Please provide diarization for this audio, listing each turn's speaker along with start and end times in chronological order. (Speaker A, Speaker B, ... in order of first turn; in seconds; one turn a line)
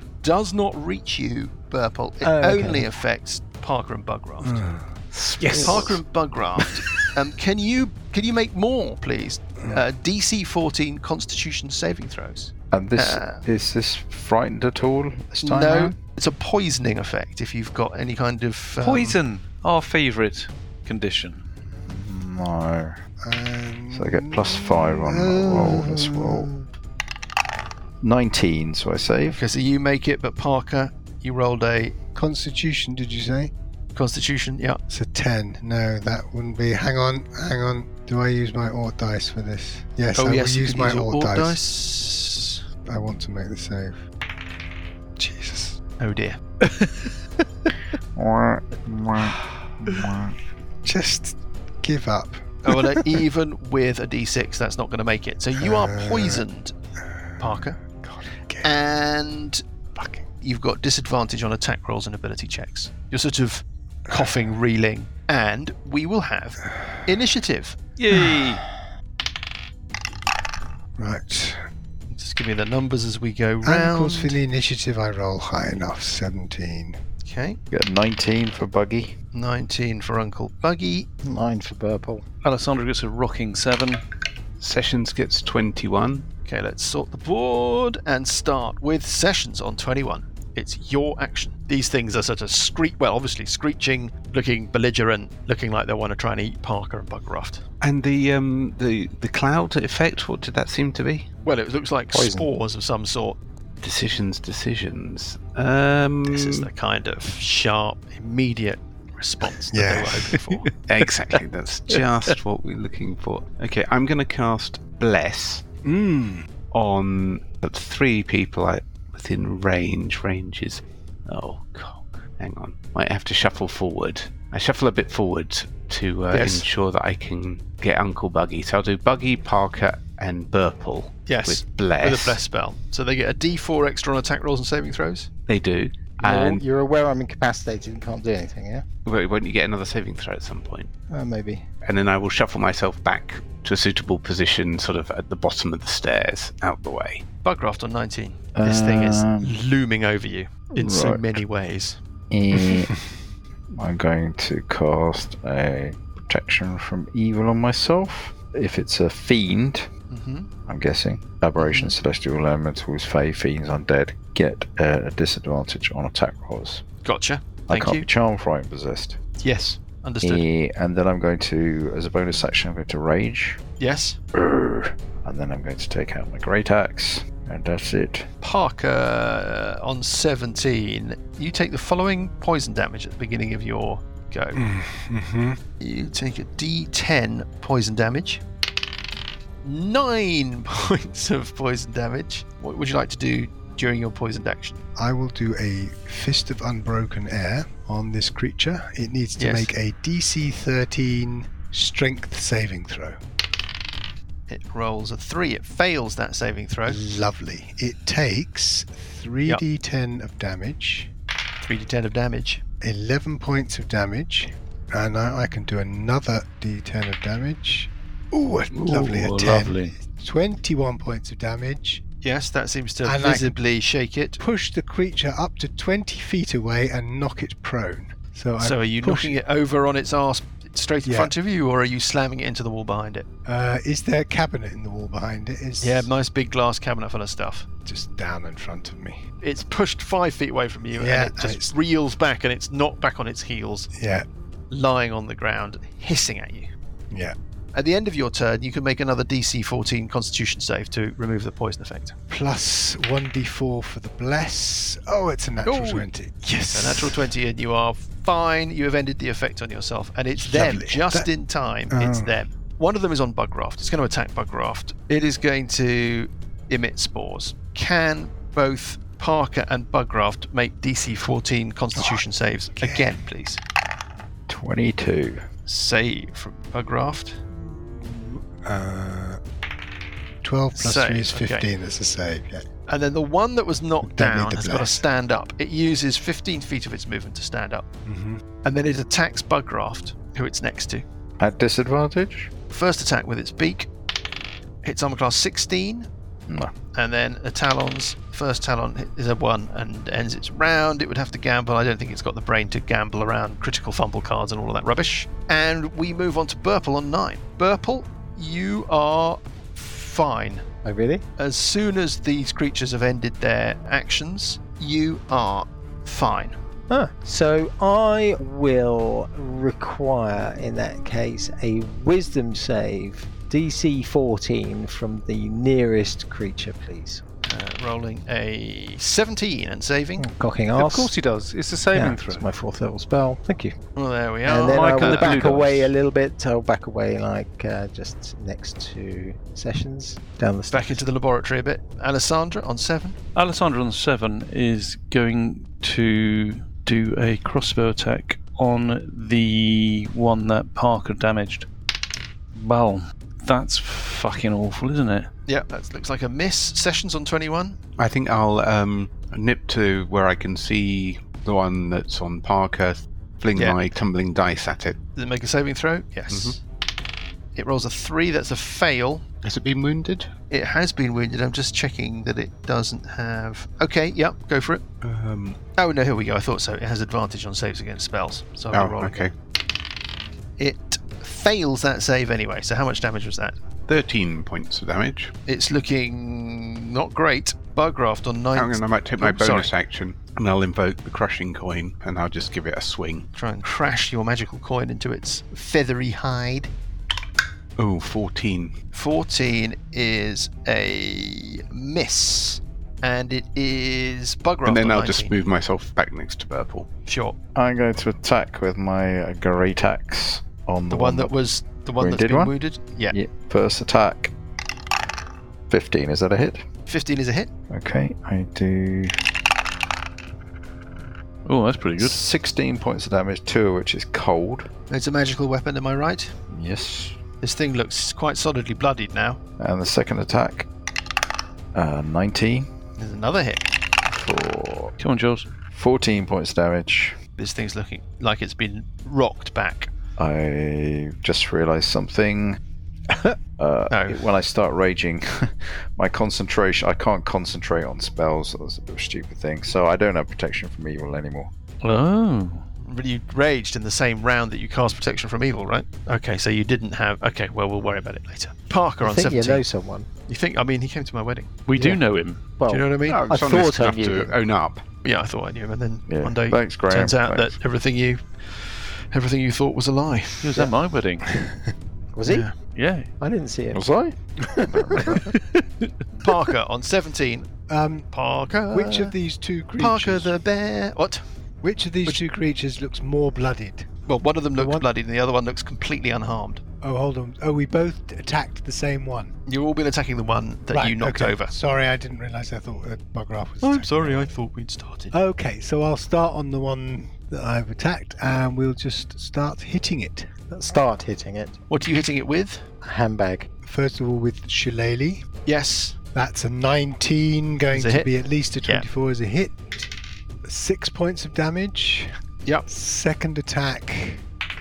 Speaker A: 0.2-4.6
Speaker B: 2.2-2.9
Speaker C: 4.4-4.9
Speaker D: 5.1-6.0
Speaker E: 5.4-5.8
Speaker A: 5.5-13.4
Speaker F: 12.7-15.9
Speaker A: 15.4-19.2
Speaker E: 18.8-21.4
Speaker F: 21.9-23.0
Speaker C: 23.2-26.6
Speaker F: 23.9-26.5
Speaker F: 28.0-29.4
Speaker A: 29.3-31.9
Speaker C: 32.1-33.5
Speaker A: 33.9-34.8
Speaker C: 34.9-41.6
Speaker A: 40.1-42.6
Speaker C: 42.9-44.0
Speaker C: 45.2-45.8
Speaker A: 46.0-46.4
Speaker F: 48.1-50.4
Speaker C: 50.8-53.0
Speaker A: 52.6-56.7
Speaker C: 55.6-56.4
Speaker C: 57.0-58.7
Speaker A: 57.4-57.8
Speaker A: 58.6-59.6
Speaker C: 60.0-60.3
Speaker A: 60.4-67.8
Speaker C: 66.6-67.0
Speaker E: 68.0-68.6
Speaker C: 71.0-71.6
Speaker A: 72.1-74.4
Speaker C: 73.6-77.0
Speaker A: 77.2-77.6
Speaker F: 77.7-79.1
Speaker A: 79.3-81.1
Speaker B: 81.2-82.2
Speaker E: 82.4-84.0
Speaker D: 84.6-86.2
Speaker A: 86.5-97.6
Speaker D: 97.8-101.3
Speaker A: 101.4-103.4
Speaker B: 102.1-102.5
Speaker D: 103.8-106.7
Speaker A: 106.2-110.7
Speaker C: 109.7-110.6
Speaker D: 110.9-115.6
Speaker C: 115.8-116.5
Speaker D: 116.7-132.4
Speaker A: 126.3-126.7
Speaker A: 131.3-135.3
Speaker D: 135.5-136.6
Speaker B: 136.2-138.8
Speaker D: 139.0-140.9
Speaker B: 141.1-141.6
Speaker D: 141.8-147.2
Speaker A: 147.4-152.0
Speaker F: 148.5-149.5
Speaker F: 150.7-151.4
Speaker F: 152.3-152.9
Speaker F: 153.7-159.9
Speaker A: 160.1-160.5
Speaker F: 160.7-166.8
Speaker A: 161.6-161.9
Speaker A: 167.0-168.1
Speaker F: 167.7-169.2
Speaker A: 169.4-170.4
Speaker F: 170.2-173.6
Speaker A: 173.8-174.2
Speaker F: 174.3-178.3
Speaker A: 178.4-184.6
Speaker C: 184.5-185.6
Speaker A: 185.8-188.4
Speaker A: 189.6-194.8
Speaker C: 195.0-203.2
Speaker A: 199.4-199.7
Speaker A: 204.5-207.0
Speaker C: 206.9-211.1
Speaker A: 211.6-212.6
Speaker C: 212.8-222.0
Speaker E: 218.7-219.9
Speaker A: 222.2-224.4
Speaker C: 223.0-223.6
Speaker C: 224.4-229.4
Speaker A: 228.6-233.3
Speaker C: 231.0-231.3
Speaker C: 233.4-236.1
Speaker A: 235.8-237.7
Speaker C: 237.8-239.2
Speaker A: 239.4-243.9
Speaker C: 240.9-241.7
Speaker C: 243.9-244.2
Speaker A: 244.7-246.7
Speaker A: 247.7-252.1
Speaker C: 252.3-257.3
Speaker A: 255.6-256.1
Speaker A: 256.7-273.6
Speaker C: 260.4-261.3
Speaker C: 261.9-262.3
Speaker C: 271.9-272.2
Speaker C: 272.8-273.2
Speaker F: 274.5-275.4
Speaker A: 275.7-277.4
Speaker C: 277.8-279.4
Speaker C: 280.4-282.6
Speaker A: 280.7-281.7
Speaker A: 282.9-287.9
Speaker C: 284.0-285.0
Speaker C: 288.1-288.4
Speaker A: 288.6-291.1
Speaker F: 291.4-292.5
Speaker A: 292.7-293.9
Speaker A: 294.8-296.1
Speaker A: 296.9-310.6
Speaker B: 310.8-311.2
Speaker A: 311.4-316.6
Speaker B: 316.9-327.2
Speaker A: 327.4-330.2
Speaker B: 330.2-331.1
Speaker E: 330.8-332.4
Speaker B: 331.9-333.7
Speaker A: 333.9-335.5
Speaker B: 334.4-341.0
Speaker E: 334.6-335.9
Speaker A: 340.7-343.2
Speaker E: 343.3-351.7
Speaker E: 352.6-355.3
Speaker A: 355.5-357.8
Speaker D: 358.0-365.0
Speaker A: 365.1-366.6
Speaker D: 366.3-366.6
Speaker A: 367.6-369.3
Speaker D: 369.4-370.3
Speaker A: 370.5-374.8
Speaker D: 375.0-375.6
Speaker A: 375.8-379.3
Speaker D: 378.7-379.3
Speaker A: 380.6-383.6
Speaker D: 383.9-385.3
Speaker A: 385.5-389.7
Speaker D: 388.6-393.3
Speaker A: 393.3-396.7
Speaker D: 397.8-398.7
Speaker A: 398.9-405.4
Speaker D: 404.6-406.9
Speaker A: 407.1-407.4
Speaker F: 407.6-411.3
Speaker A: 410.9-413.2
Speaker F: 412.0-412.5
Speaker F: 413.1-414.3
Speaker F: 415.7-416.6
Speaker A: 416.9-417.5
Speaker F: 417.7-419.1
Speaker E: 421.4-422.2
Speaker F: 422.0-424.7
Speaker A: 424.9-426.3
Speaker F: 426.5-427.2
Speaker A: 427.4-429.4
Speaker F: 429.6-430.7
Speaker F: 431.7-432.7
Speaker A: 433.0-433.7
Speaker F: 434.1-434.9
Speaker E: 435.0-435.5
Speaker F: 435.7-437.2
Speaker A: 437.4-439.9
Speaker F: 440.2-442.6
Speaker F: 443.6-451.5
Speaker A: 443.9-444.2
Speaker E: 451.8-452.6
Speaker A: 452.8-459.6
Speaker B: 459.0-460.1
Speaker A: 460.3-461.6
Speaker E: 461.7-462.4
Speaker B: 461.7-462.0
Speaker B: 462.6-464.3
Speaker A: 462.7-463.2
Speaker D: 463.1-464.8
Speaker A: 465.0-470.6
Speaker F: 466.1-467.6
Speaker E: 470.4-471.3
Speaker B: 472.1-472.5
Speaker A: 472.3-472.5
Speaker E: 472.7-473.1
Speaker B: 473.2-473.8
Speaker F: 473.7-474.2
Speaker B: 474.6-475.2
Speaker F: 474.7-475.2
Speaker E: 475.1-476.3
Speaker A: 476.2-477.5
Speaker C: 477.7-478.1
Speaker A: 478.1-479.1
Speaker C: 478.7-480.3
Speaker A: 479.8-481.2
Speaker C: 481.6-483.9
Speaker A: 484.1-486.6
Speaker C: 484.6-484.9
Speaker C: 486.8-489.3
Speaker A: 489.5-491.5
Speaker C: 490.7-494.3
Speaker A: 493.6-495.1
Speaker C: 495.1-500.3
Speaker B: 500.5-501.6
Speaker A: 501.7-502.6
Speaker B: 502.8-503.5
Speaker C: 503.6-505.2
Speaker A: 505.4-506.0
Speaker C: 506.1-509.6
Speaker A: 507.7-508.1
Speaker C: 510.4-512.1
Speaker C: 512.7-514.2